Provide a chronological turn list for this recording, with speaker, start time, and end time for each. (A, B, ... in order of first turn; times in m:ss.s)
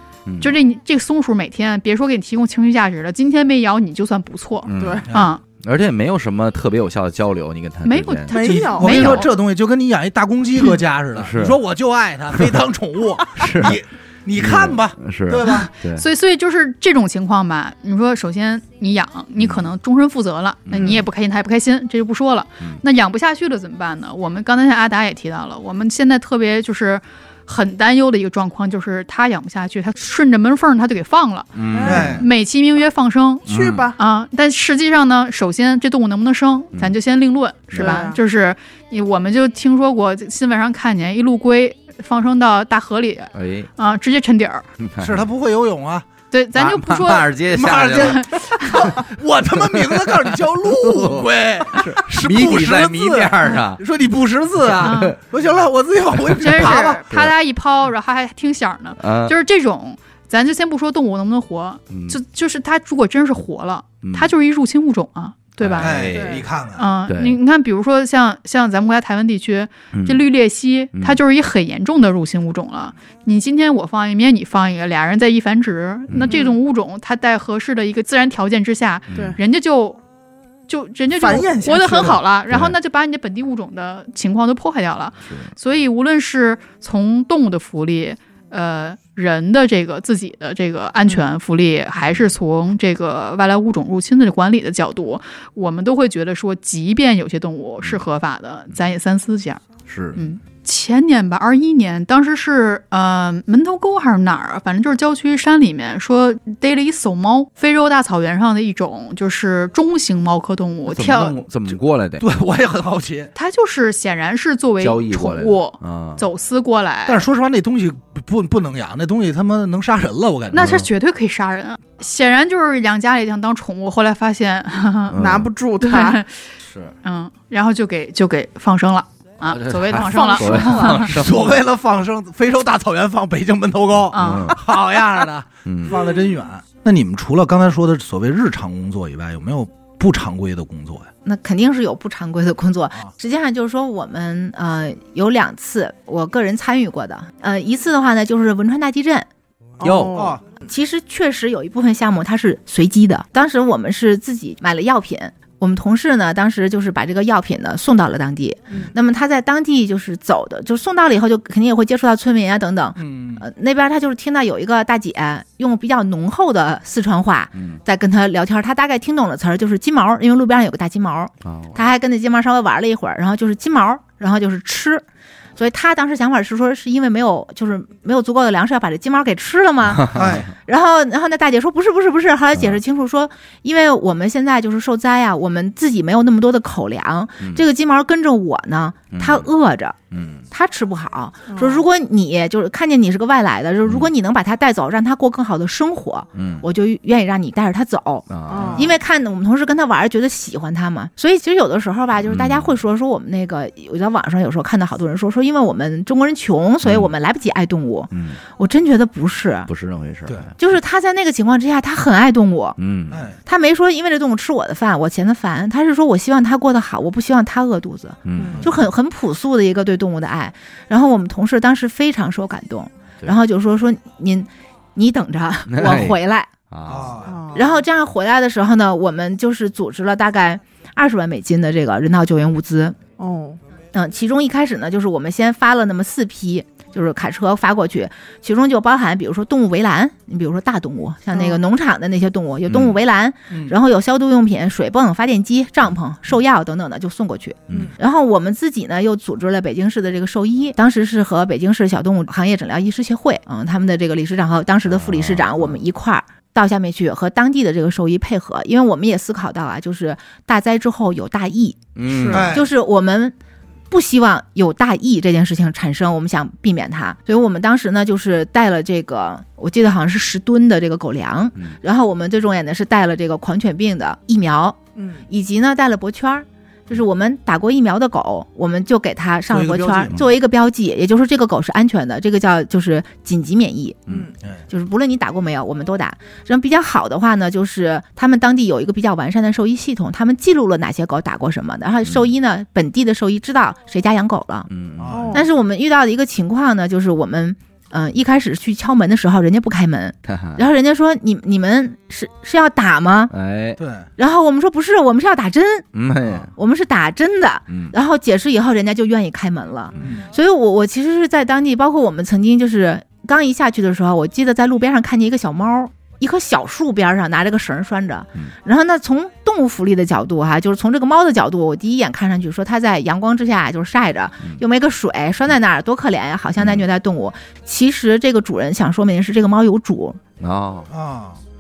0:00.2-0:00.5 A
0:00.4-0:05.4 B
0:04.6-0:09.2 A
0:04.8-0:05.1 C
0:07.8-0:09.3 B
0:08.3-0:09.2 C
0:08.4-0:15.7 D
0:11.2-0:11.6 A
0:12.3-0:12.6 A
0:13.4-0:13.8 A
0:14.4-0:16.0 A
0:15.4-0:44.6 B
0:19.4-0:19.7 A
0:20.7-0:21.0 A
0:31.5-0:32.3 A
0:31.7-0:32.1 C
0:31.8-0:32.2 D
0:33.4-0:33.8 A
0:33.5-0:34.0 C
0:37.7-0:38.2 C
0:43.3-0:43.7 A
0:44.8-0:45.3 A
0:45.0-0:46.0 D
0:46.3-0:47.3 B
0:46.6-0:48.2 A
0:47.5-0:57.0 D
0:47.9-0:49.0 B
0:49.6-0:53.8 A
0:54.6-0:55.1 A
0:54.8-0:55.2 B
0:56.3-1:06.0 B
0:56.4-0:57.3 A
0:59.0-0:59.3 A
1:01.9-1:02.2 A
1:04.0-1:04.3 A
1:05.6-1:06.4 A
1:05.8-1:06.8 D
1:06.1-1:06.4 C
1:06.7-1:20.0 B
1:07.1-1:07.4 A
1:09.9-1:10.2 A
1:16.2-1:16.6 C
1:19.1-1:19.4 A
1:20.7-1:39.6 B
1:21.1-1:22.2 C
1:22.5-1:22.8 A
1:25.3-1:25.5 A
1:39.9-1:40.2 A
1:40.2-1:51.4 B
1:50.9-1:52.2 A
1:52.2-1:53.3 D
1:53.3-1:57.3 B
1:54.8-1:56.2 A
1:57.0-2:00.8 D
2:00.5-2:05.2 B
2:00.6-2:00.8 A
2:05.1-2:05.5 A
2:05.2-2:06.2 C
2:05.8-2:06.5 B
2:06.6-2:06.9 A
2:07.0-2:11.2 B
2:09.5-2:11.6 A
2:10.0-2:11.1 C
2:11.1-2:21.1 D
2:14.1-2:14.6 B
2:14.1-2:14.6 A
2:15.6-2:16.0 A
2:21.2-2:29.3 E
2:29.8-2:30.4 C
2:29.8-2:30.3 A
2:30.1-2:30.4 D
2:30.6-2:55.0 E
2:43.0-2:43.4 D
2:47.5-2:47.8 A
2:51.4-2:51.9 A
2:55.6-3:10.0 E
2:59.9-3:00.5 A
3:00.1-3:00.5 D
3:02.5-3:02.8 A
3:09.1-3:09.5 A
3:10.1-3:10.4 A
3:10.5-3:29.7 E
3:11.5-3:11.8 C
3:13.8-3:14.1 A
3:16.4-3:16.6 A
3:18.3-3:18.9 A
3:18.5-3:18.9 C
3:22.2-3:22.8 A
3:26.8-3:27.1 A
3:28.1-3:28.4 A
3:29.7-3:30.5 A
3:30.6-3:32.8 E
3:32.8-3:33.2 A
3:33.1-3:33.4 D
3:33.4-3:46.5 E
3:38.2-3:38.6 A
3:38.4-3:38.7 C
3:38.4-3:38.8 D
3:45.7-3:46.2 A
3:46.7-3:47.2 A
3:46.9-3:47.3 D
3:47.2-3:47.7 C
3:47.5-3:53.0 E
3:53.2-3:53.6 C
3:53.9-4:23.3 E
4:01.3-4:01.6 C
4:02.7-4:02.9 A
4:07.7-4:07.9 A
4:14.9-4:15.8 A
4:22.0-4:22.6 A
4:22.1-4:22.5 C
4:22.3-4:22.6 D
4:23.9-4:44.0 E
4:35.0-4:35.2 C
4:39.5-4:40.2 D
4:44.7-4:54.7 E
4:54.7-4:55.1 A
4:55.0-4:55.4 D
4:55.1-4:55.4 C
4:55.3-5:03.3 E
5:00.2-5:00.6 A
5:03.3-5:03.8 A
5:03.8-5:04.1 D
5:04.2-5:05.9 E
5:05.9-5:06.5 A
5:06.5-5:30.2 E
5:07.7-5:07.9 A
5:09.9-5:10.2 A
5:10.0-5:10.3 D
5:26.6-5:26.8 A
5:30.4-5:30.9 A
5:30.9-5:31.4 D